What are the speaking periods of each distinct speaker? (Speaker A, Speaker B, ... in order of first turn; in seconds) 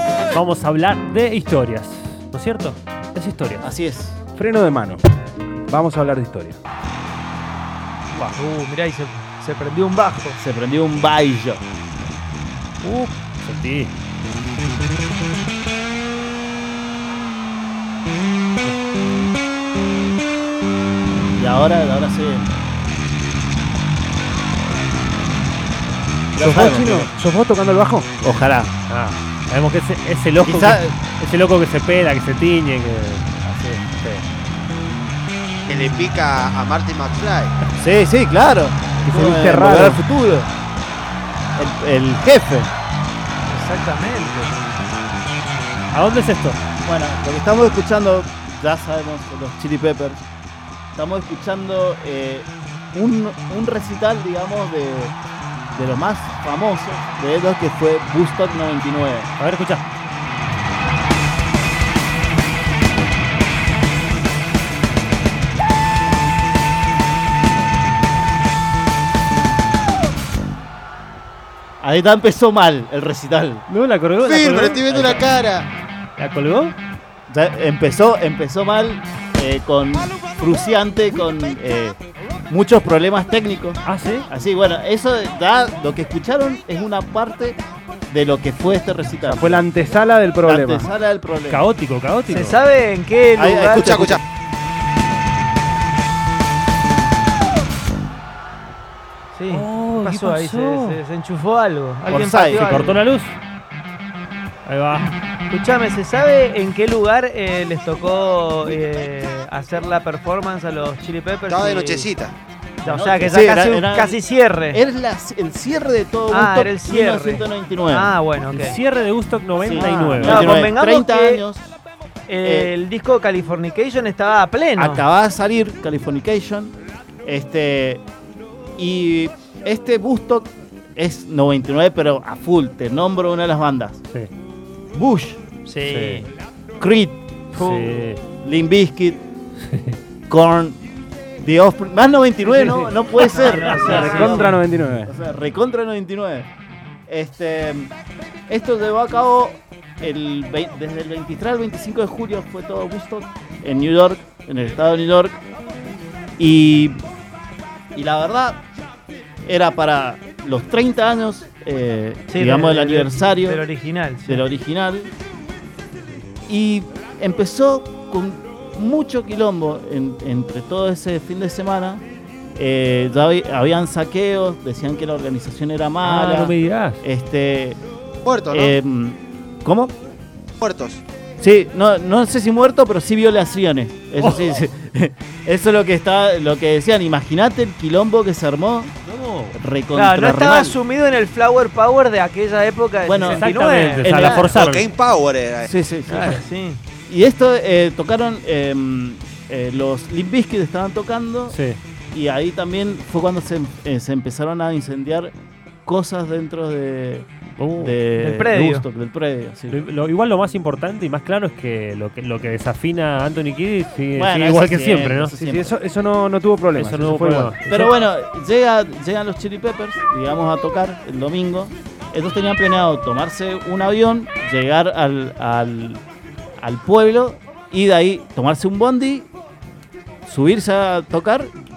Speaker A: 0.3-3.8, 12.8-13.9, 28.9-34.2, 45.9-46.6, 59.4-59.8, 73.7-75.3, 76.2-76.8, 83.8-84.3, 91.5-92.6, 99.5-101.0, 102.5-103.4, 104.6-105.1, 118.5-120.5, 135.8-136.2, 137.5-138.2, 139.7-139.9, 176.0-177.0, 189.1-189.5, 193.2-194.9, 201.5-201.8, 207.6-208.0, 209.7-215.3, 216.8-217.6
Speaker B: 3.6-4.2, 10.4-11.6, 21.3-22.5, 26.4-27.1, 28.2-28.7, 30.4-30.9, 37.8-40.5, 41.5-42.7, 46.8-50.2, 51.0-55.1, 55.7-59.3, 71.8-73.6, 77.3-82.0, 82.5-89.7, 90.4-91.6, 93.4-94.2, 102.1-103.0, 112.8-114.2, 114.7-118.1, 119.6-121.7, 122.4-122.7, 124.8-126.7, 127.2-128.0, 128.8-134.0, 134.9-135.4, 136.8-137.2, 138.4-139.2, 140.3-140.8, 141.4-146.5, 147.1-147.9, 148.5-155.3, 156.4-157.0, 157.9-158.6, 159.4-163.6, 164.2-165.1, 166.5-172.0, 172.6-177.8, 178.5-179.9, 181.4-188.9, 189.5-190.8, 193.0-194.5, 195.7-196.4, 197.1-201.6, 202.1-205.3, 205.8-209.8, 214.2-215.8, 217.7-226.0, 226.6-229.2, 230.2-231.5
Speaker C: 4.4-5.0, 5.7-6.6, 26.4-28.1, 39.1-40.0, 89.2-90.9, 143.9-145.1, 215.4-217.7
Speaker D: 8.3-10.4, 43.5-44.6, 92.3-94.2, 99.3-103.0, 105.5-112.1, 112.8-114.8, 116.3-118.8, 119.8-121.4, 122.3-125.0, 135.7-136.3, 137.5-138.0, 143.2-144.6, 162.3-164.4, 189.9-194.7, 196.1-196.8, 208.2-208.8
Speaker E: 35.7-37.5, 74.3-75.6, 93.8-94.2, 111.5-112.3, 178.2-178.8, 180.6-181.0, 194.5-195.7